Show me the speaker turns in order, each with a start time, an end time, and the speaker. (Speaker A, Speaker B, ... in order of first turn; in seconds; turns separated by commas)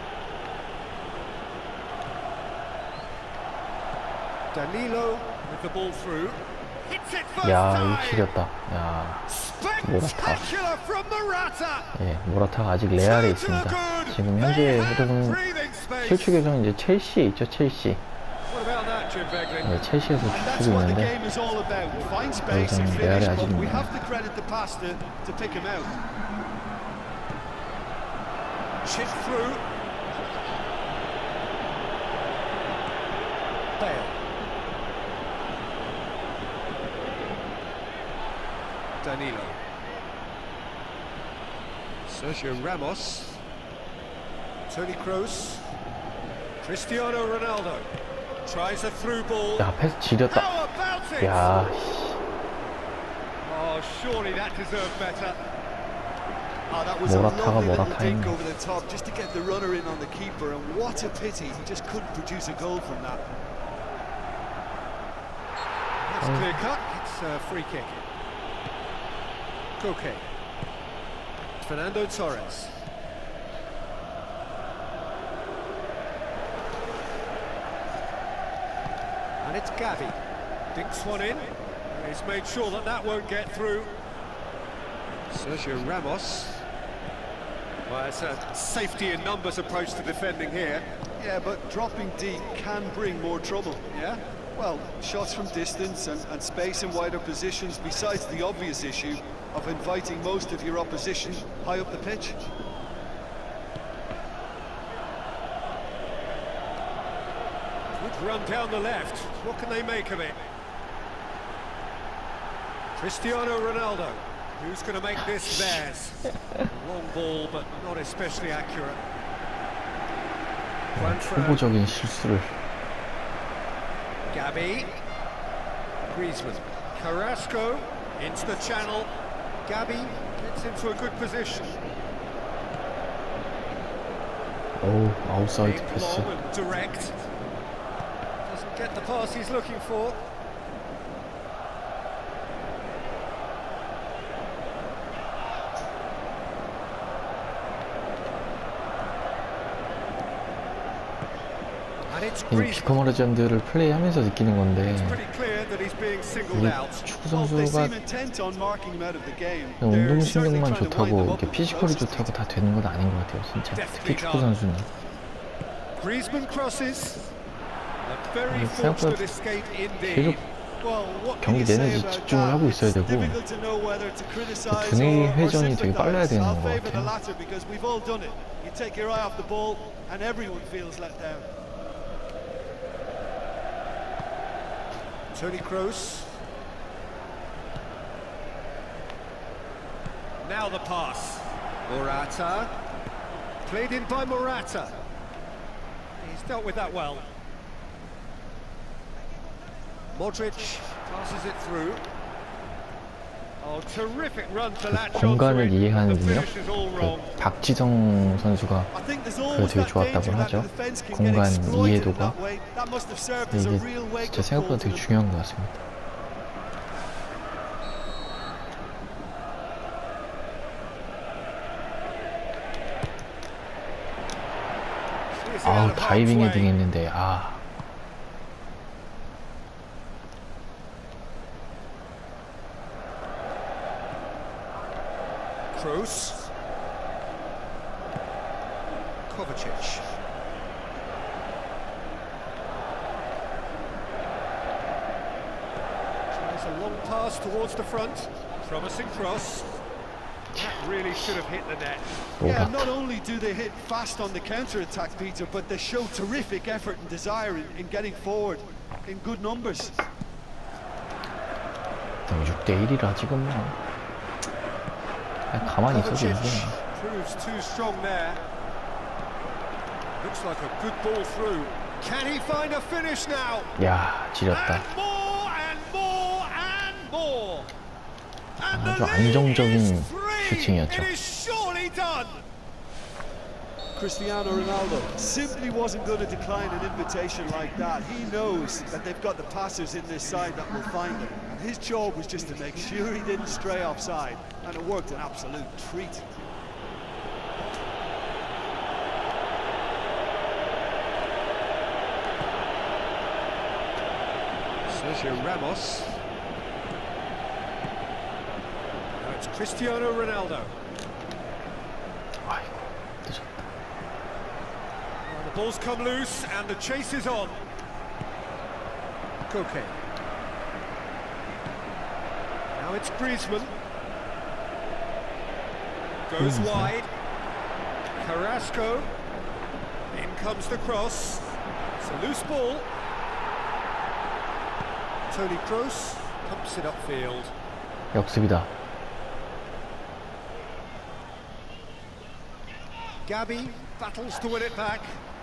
Speaker A: 4.5-8.3, Speaker B: 7.4-9.3, Speaker A: 9.3-11.9, Speaker B: 9.8-10.5, Speaker B: 11.9-15.4, Speaker A: 12.9-16.4, Speaker B: 16.0-18.0, Speaker A: 18.5-19.8, Speaker B: 19.6-21.1, Speaker C: 20.3-25.9, Speaker B: 22.5-23.9, Speaker A: 28.8-29.7, Speaker A: 33.8-34.2, Speaker A: 39.0-39.6, Speaker A: 42.0-43.4, Speaker A: 44.7-45.7, Speaker A: 46.6-47.9, Speaker A: 48.4-49.7, Speaker B: 49.6-50.5, Speaker A: 50.3-51.5, Speaker B: 51.2-52.2, Speaker A: 53.4-55.4, Speaker C: 56.7-63.2, Speaker B: 57.0-58.4, Speaker A: 66.0-68.0, Speaker B: 66.2-66.6, Speaker A: 69.8-70.2, Speaker A: 71.6-72.7, Speaker A: 79.4-80.2, Speaker A: 80.7-84.0, Speaker A: 85.3-86.6, Speaker A: 87.8-90.9, Speaker C: 91.2-93.9, Speaker A: 93.9-94.2, Speaker C: 94.5-102.5, Speaker A: 108.0-110.5, Speaker A: 113.0-119.0, Speaker B: 115.3-115.8, Speaker A: 120.9-121.7, Speaker B: 120.9-122.5, Speaker A: 124.3-125.0, Speaker A: 126.1-129.1, Speaker A: 129.7-131.8, Speaker B: 134.8-136.3, Speaker A: 135.6-137.1, Speaker A: 138.4-140.2, Speaker A: 152.1-153.1, Speaker B: 152.5-155.2, Speaker A: 154.8-157.1, Speaker B: 156.5-157.9, Speaker C: 157.3-162.3, Speaker B: 159.8-164.9, Speaker A: 159.9-160.4, Speaker A: 163.7-164.5, Speaker A: 165.9-167.2, Speaker A: 168.0-171.7, Speaker B: 168.5-169.3, Speaker B: 170.0-170.4, Speaker C: 171.4-181.5, Speaker B: 171.4-173.4, Speaker B: 174.7-177.1, Speaker A: 185.3-186.3, Speaker A: 190.4-192.8, Speaker A: 193.6-195.0, Speaker A: 196.2-197.3, Speaker A: 200.1-202.1, Speaker A: 203.6-207.3, Speaker B: 204.9-208.9, Speaker C: 208.9-215.1, Speaker B: 209.5-212.3, Speaker B: 213.5-215.8, Speaker A: 225.3-226.7, Speaker B: 225.6-227.6, Speaker A: 235.7-236.4, Speaker A: 239.3-240.1, Speaker A: 246.3-249.7, Speaker A: 250.5-252.3, Speaker B: 250.5-251.4, Speaker B: 252.4-252.9, Speaker C: 252.4-260.0, Speaker B: 262.3-263.8, Speaker B: 265.5-266.8, Speaker A: 265.8-268.4, Speaker A: 270.2-273.7, Speaker B: 273.8-274.9, Speaker A: 274.5-277.7, Speaker A: 278.6-282.4, Speaker B: 278.7-281.1, Speaker C: 283.9-296.3, Speaker A: 304.8-306.1, Speaker A: 309.2-310.7, Speaker B: 312.4-313.6, Speaker A: 315.2-317.6, Speaker A: 319.5-319.9, Speaker A: 322.7-323.7, Speaker A: 326.3-327.1, Speaker B: 326.4-326.9, Speaker A: 328.1-329.1, Speaker A: 330.1-332.9, Speaker A: 335.3-337.5, Speaker B: 338.1-338.7, Speaker A: 343.2-345.2